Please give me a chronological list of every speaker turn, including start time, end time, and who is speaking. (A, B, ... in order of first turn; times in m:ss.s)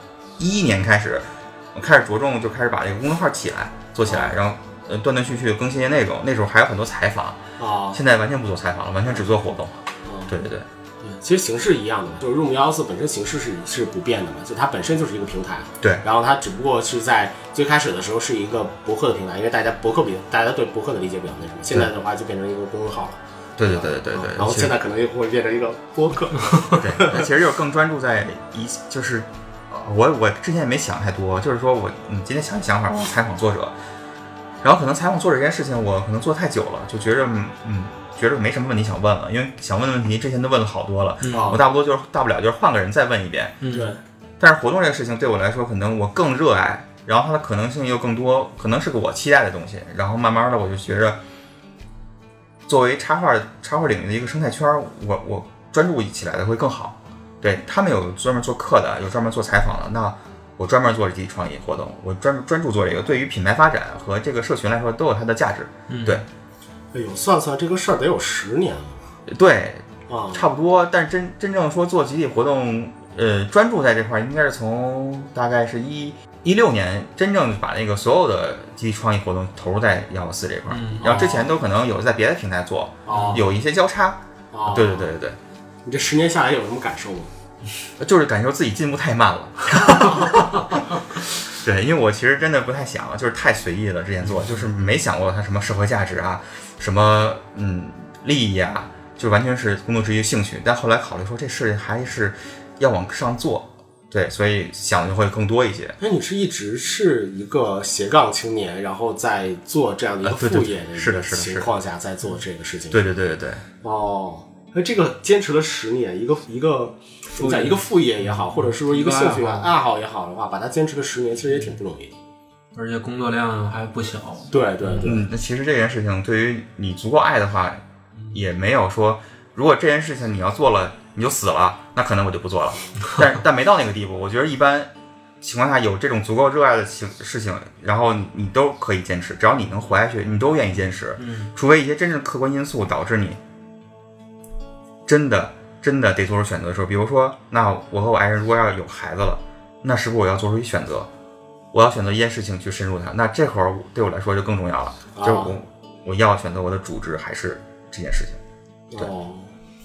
0:00.4-0:07.4 A
0:04.0-0:04.4 B
0:07.6-0:08.0 B
0:07.9-0:10.7 A
0:10.0-0:10.3 B
0:11.0-0:27.3 B
0:23.6-0:24.7 A
0:26.8-0:33.8 A
0:34.6-0:43.6 A
0:41.2-0:41.6 C
0:41.3-0:41.6 B
0:43.6-0:43.9 C
0:43.7-0:44.0 B
0:44.4-0:51.2 A
0:52.7-1:06.2 A
1:05.9-1:06.2 C
1:06.9-1:09.0 B
1:09.3-1:25.4 A
1:10.1-1:10.5 B
1:20.7-1:21.4 C
1:21.0-1:21.5 B
1:23.1-1:23.4 B
1:23.1-1:23.4 C
1:24.5-1:25.1 B
1:25.8-1:27.3 B
1:28.0-1:46.0 A
1:46.0-1:53.0 B
1:50.2-1:51.7 A
1:52.9-1:53.6 A
1:53.8-2:02.2 B
1:57.4-1:59.7 C
2:02.8-2:05.1 C
2:04.5-2:05.2 B
2:05.0-2:07.8 A
2:08.3-2:14.9 A
2:15.4-2:23.4 A
2:21.2-2:21.5 C
2:25.1-2:31.1 A
2:31.7-2:38.4 A
2:35.1-2:35.6 B
2:38.9-2:39.5 B